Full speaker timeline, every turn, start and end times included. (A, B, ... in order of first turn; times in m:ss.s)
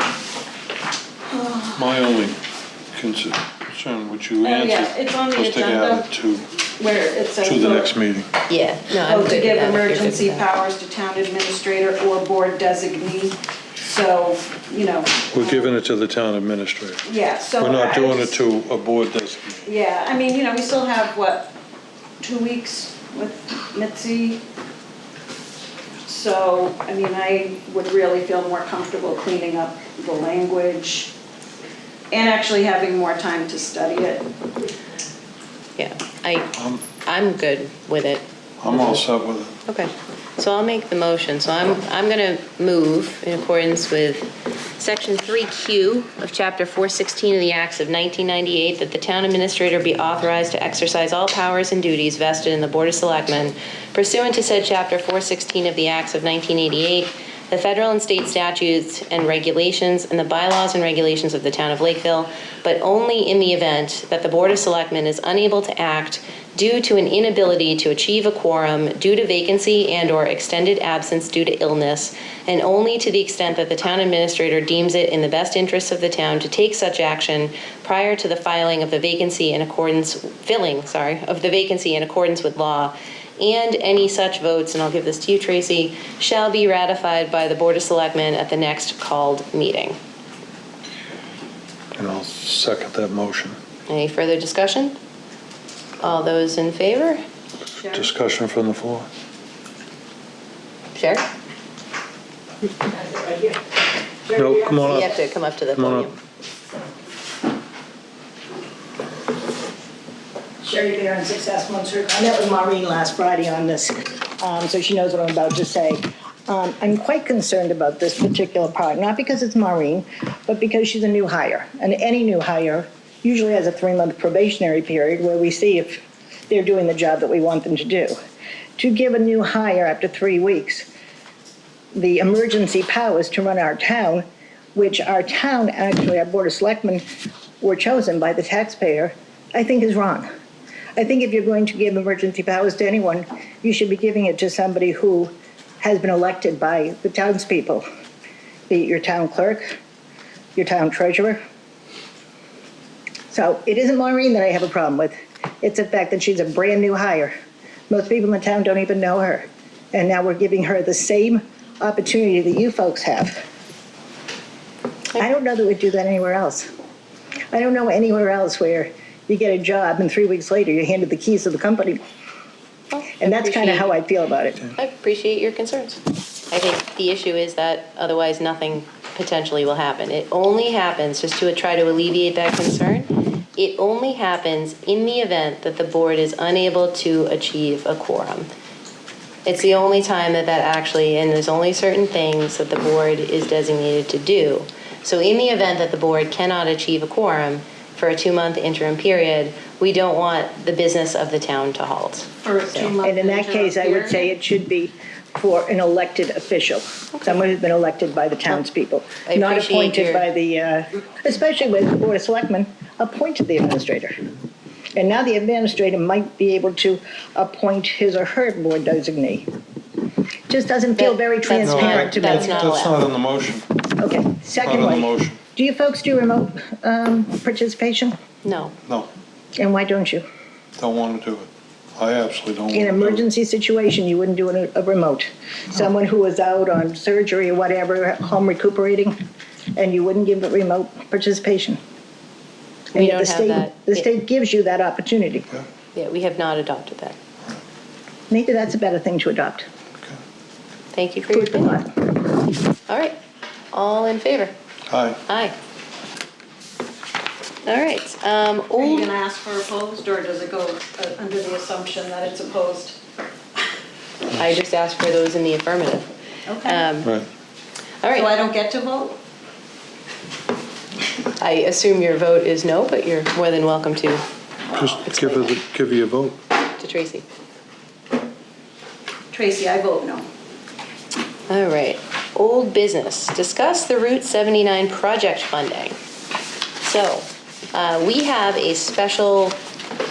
0:01.3-0:01.8 A
0:01.8-0:02.4 B
0:02.9-0:06.5 B
0:04.4-0:06.0 A
0:06.8-0:07.9 A
0:07.4-0:08.3 B
0:08.5-0:10.5 C
0:08.9-0:15.7 A
0:15.3-0:17.0 B
0:17.0-0:18.4 A
0:17.6-0:19.7 B
0:19.6-0:21.5 A
0:22.2-0:24.4 A
0:26.0-0:31.1 A
0:32.1-0:34.2 A
0:35.8-0:38.2 C
0:36.6-0:36.8 B
0:38.6-0:39.5 B
0:39.7-1:30.0 C
1:32.0-1:33.6 B
1:33.9-1:35.0 C
1:36.0-1:37.2 C
1:37.8-1:39.1 B
1:41.0-1:41.2 C
1:42.8-1:43.6 D
1:44.2-1:45.0 D
1:44.4-1:45.2 B
1:44.8-1:46.2 C
1:45.7-1:46.1 B
1:50.6-2:08.2 D
2:08.8-2:10.9 D
2:11.9-2:17.0 D
2:17.6-2:20.3 D
2:21.0-2:27.8 D
2:28.7-2:29.8 D
2:30.6-2:31.4 D
2:33.3-2:37.3 D
2:37.9-2:43.4 D
2:45.2-2:46.7 D
2:47.5-2:52.0 D
2:52.9-2:54.0 C
2:53.2-2:54.6 D
2:54.8-3:08.5 C
3:09.4-3:22.9 C
3:22.4-3:24.3 A
3:23.0-3:34.2 D
3:29.3-3:30.3 C
3:34.9-3:39.5 D
3:40.5-3:42.7 D
3:41.0-3:43.0 C
3:41.6-3:43.8 B
3:44.0-3:48.2 D
3:44.6-3:45.4 B
3:48.4-3:48.8 C
3:49.6-3:50.2 D
3:50.8-3:53.2 B
3:52.7-3:59.2 D
3:59.8-4:01.8 D
4:02.9-4:05.5 D
4:02.9-4:04.1 C
4:05.9-4:07.2 C
4:08.3-4:09.7 D
4:10.9-4:11.8 C
4:11.3-4:11.9 D
4:12.9-4:13.2 C
4:13.7-4:14.5 C
4:14.9-4:15.2 B
4:15.3-4:15.5 C
4:17.6-4:19.1 C
4:18.8-4:23.0 A
4:24.3-4:26.1 C
4:26.4-4:26.9 A
4:26.6-4:27.1 C
4:28.0-4:28.3 C
4:28.1-4:29.2 A
4:31.4-4:34.2 C
4:34.7-4:36.4 B
4:35.0-4:35.6 C
4:36.8-4:37.2 C
4:39.3-4:40.2 A
4:41.5-4:45.9 C
4:46.8-4:49.6 C